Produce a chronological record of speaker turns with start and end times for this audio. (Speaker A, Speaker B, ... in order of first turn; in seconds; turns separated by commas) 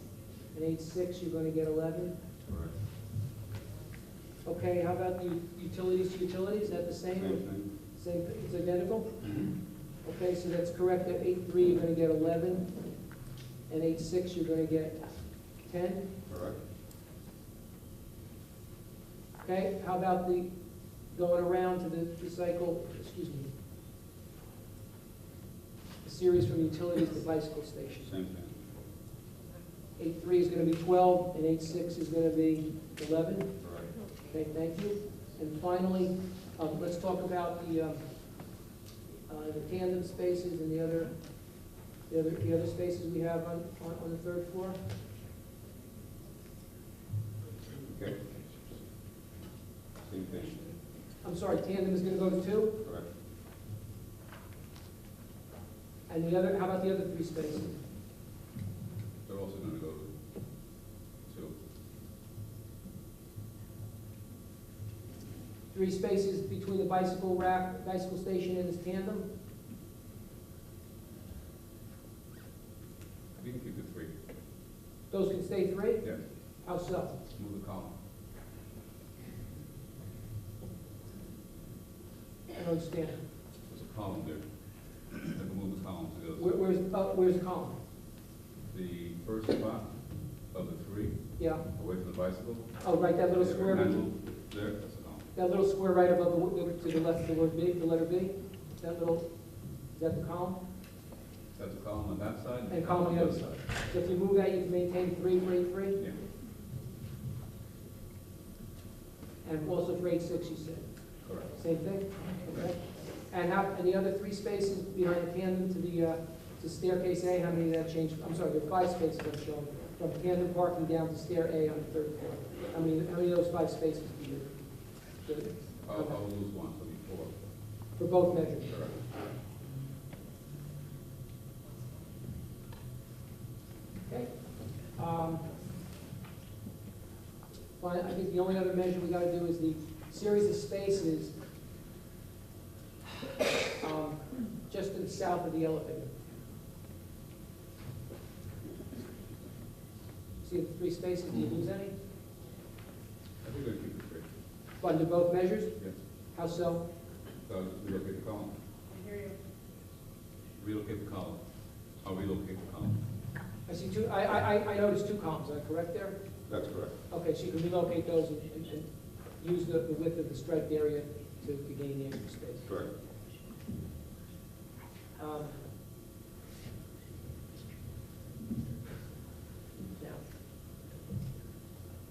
Speaker A: 0.5-2.1, Speaker A: 4.4-9.1, Speaker B: 7.2-7.7, Speaker A: 10.0-12.7, Speaker A: 13.7-16.1, Speaker B: 16.3-16.6, Speaker A: 19.4-20.5, Speaker A: 21.1-23.5, Speaker A: 26.0-28.1, Speaker B: 28.0-28.5, Speaker A: 30.0-33.5, Speaker B: 33.6-33.9, Speaker A: 34.3-38.0, Speaker A: 39.3-41.2, Speaker A: 42.1-44.8, Speaker B: 47.9-48.2, Speaker B: 50.0-50.6, Speaker A: 51.2-52.8, Speaker A: 56.1-57.8, Speaker B: 59.2-60.1, Speaker B: 61.3-61.5, Speaker A: 65.7-69.3, Speaker B: 73.4-74.1, Speaker A: 75.1-76.0, Speaker A: 76.6-77.2, Speaker B: 77.3-77.9, Speaker A: 82.5-83.2, Speaker B: 83.7-84.4, Speaker B: 85.2-86.5, Speaker A: 86.4-87.8, Speaker B: 88.7-89.9, Speaker B: 90.5-91.2, Speaker A: 91.4-91.6, Speaker B: 91.7-92.7, Speaker A: 92.8-94.0, Speaker B: 93.3-95.3, Speaker A: 95.3-99.3, Speaker A: 99.9-100.6, Speaker B: 101.5-103.6, Speaker A: 102.7-106.0, Speaker A: 109.4-110.9, Speaker B: 111.2-111.5, Speaker A: 111.5-124.6, Speaker A: 125.2-126.2, Speaker B: 125.9-127.3, Speaker A: 128.0-128.7, Speaker B: 128.7-129.0, Speaker A: 134.1-134.3, Speaker A: 134.9-135.4, Speaker A: 137.8-141.3, Speaker A: 143.8-146.1, Speaker A: 150.4-151.9, Speaker B: 153.4-154.3, Speaker A: 154.8-155.7, Speaker A: 156.3-156.8, Speaker B: 157.4-158.5, Speaker B: 160.6-161.4, Speaker B: 162.0-163.0, Speaker A: 163.7-166.2, Speaker B: 166.5-166.9, Speaker A: 167.1-168.9, Speaker A: 169.4-172.7, Speaker A: 175.2-175.6